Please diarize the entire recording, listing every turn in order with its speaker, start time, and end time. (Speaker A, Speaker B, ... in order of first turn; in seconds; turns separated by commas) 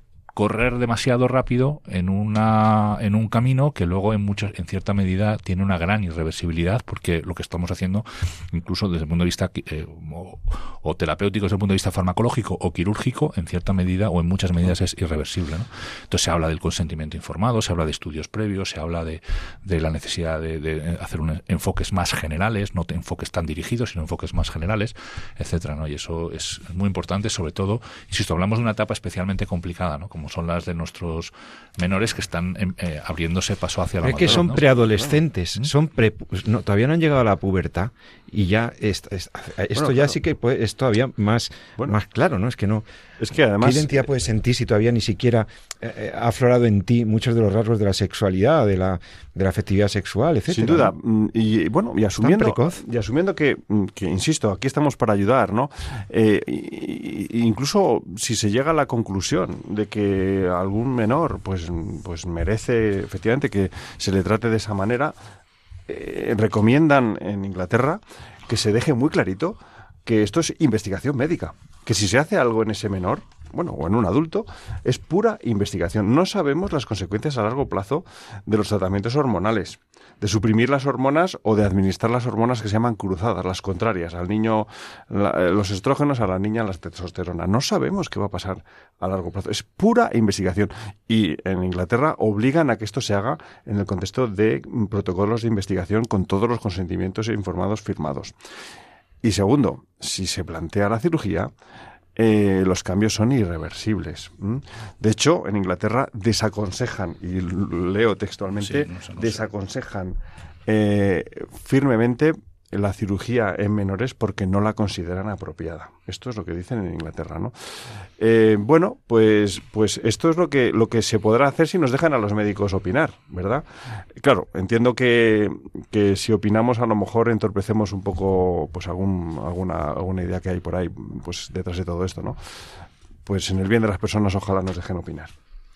Speaker A: 0.3-34.6, Speaker B: 34.0-42.8, Speaker C: 34.3-35.1, Speaker C: 39.8-40.1, Speaker C: 43.2-44.0, Speaker B: 43.6-50.9, Speaker C: 50.5-65.2, Speaker B: 52.2-52.8, Speaker C: 65.9-98.3, Speaker C: 99.2-101.5, Speaker C: 102.2-117.5, Speaker A: 108.6-109.5, Speaker C: 118.2-123.6, Speaker C: 124.2-132.4, Speaker C: 133.2-135.3